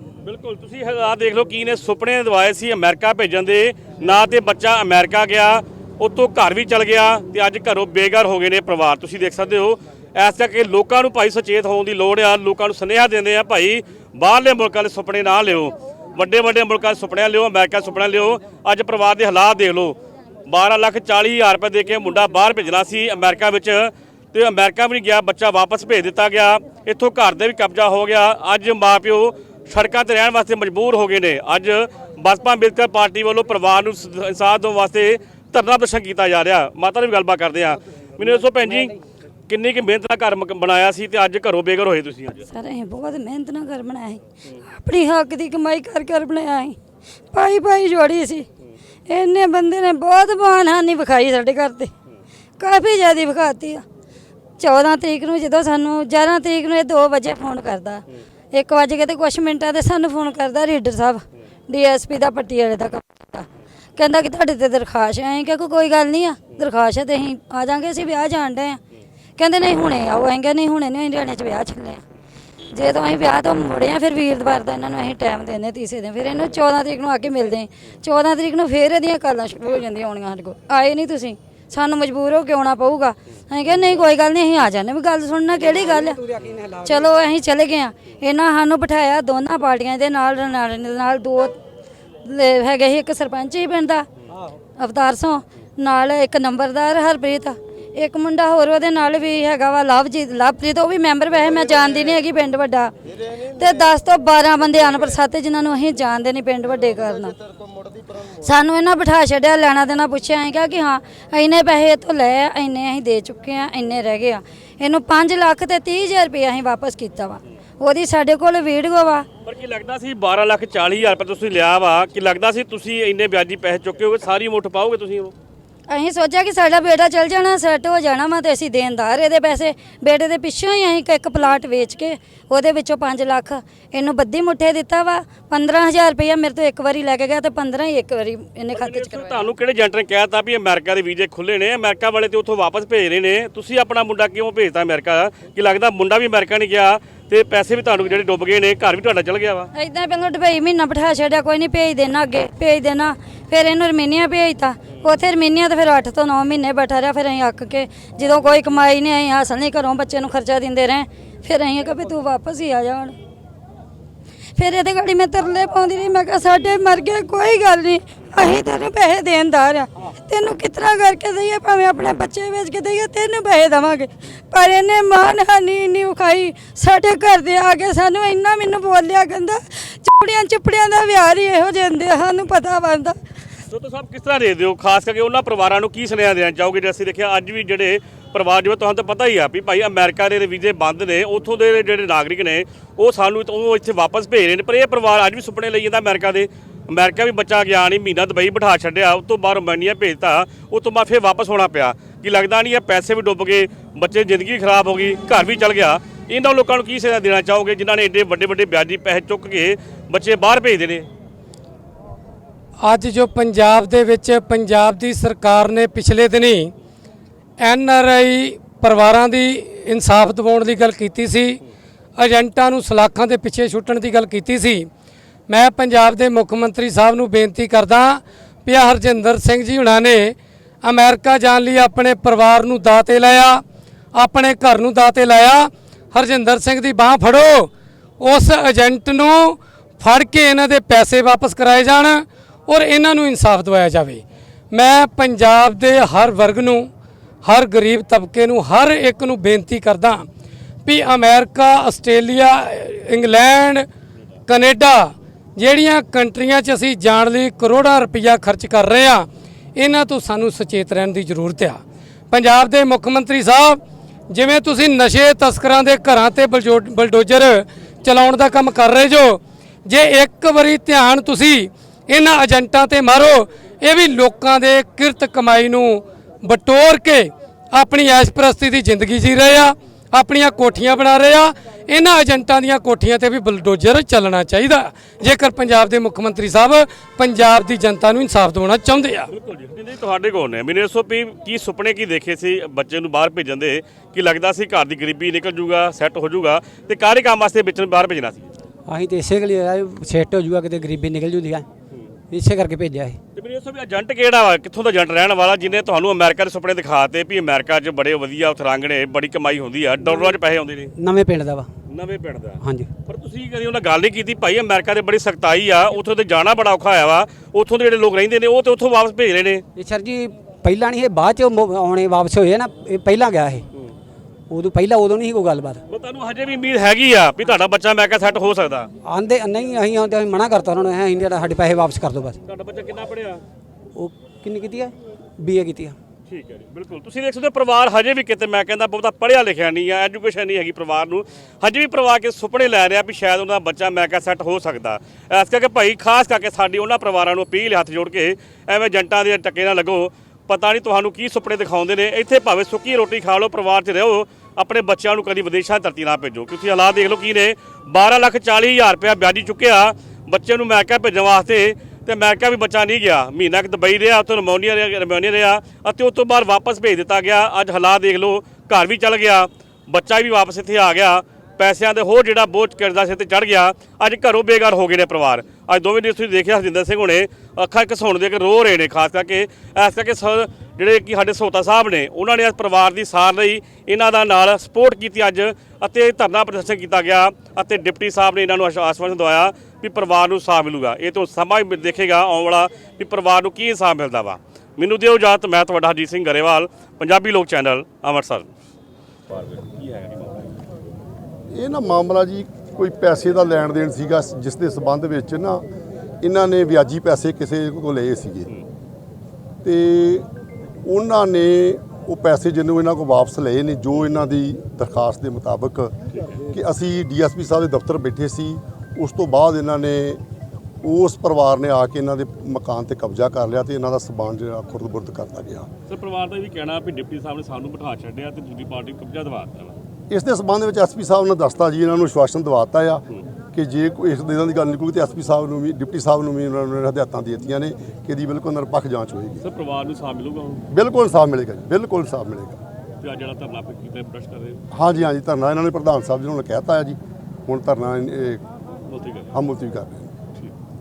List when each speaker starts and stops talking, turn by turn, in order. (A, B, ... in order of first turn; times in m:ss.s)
0:00.2-0:38.9 A
0:39.5-0:42.5 A
0:42.5-0:46.8 B
0:47.3-0:48.4 B
0:49.1-0:51.9 B
0:52.6-0:53.8 B
0:54.6-1:08.8 B
1:09.4-1:12.0 B
1:12.7-1:26.2 B
1:25.6-1:27.1 C
1:26.8-1:31.6 B
1:32.2-1:34.0 B
1:34.8-1:42.9 B
1:43.5-1:47.4 B
1:48.4-1:59.3 B
1:59.4-2:05.3 A
2:05.9-2:19.5 B
2:18.7-2:29.7 A
2:29.7-2:43.1 B
2:44.6-3:03.2 B
3:03.7-3:31.1 A
3:32.8-3:36.7 D
3:37.6-3:41.6 D
3:42.2-3:44.9 D
3:45.5-3:53.6 D
3:54.1-4:06.9 D
4:07.4-4:10.3 D
4:10.8-4:13.8 D
4:14.5-4:49.3 D
4:49.3-4:58.5 A
4:58.9-5:01.6 C
5:02.3-5:03.2 C
5:03.3-5:10.9 A
5:11.0-5:11.7 C
5:11.9-5:19.6 A
5:12.6-5:12.9 C
5:19.8-5:23.6 C
5:24.5-5:25.8 C
5:25.9-5:28.9 A
5:29.0-5:32.4 C
5:32.4-5:33.4 A
5:34.0-5:36.0 C
5:36.3-6:38.5 A
6:39.3-6:40.6 A
6:41.5-6:45.6 E
6:46.2-6:48.5 E
6:49.6-6:50.3 E
6:50.8-6:55.9 E
6:56.1-6:56.4 A
6:56.5-7:00.2 E
7:00.8-7:05.7 E
7:05.9-7:09.8 A
7:10.1-7:19.4 E
7:19.4-7:20.6 A
7:20.7-7:22.6 E
7:23.0-7:24.6 A
7:24.7-7:28.4 E
7:28.9-7:29.3 A
7:29.3-7:30.1 E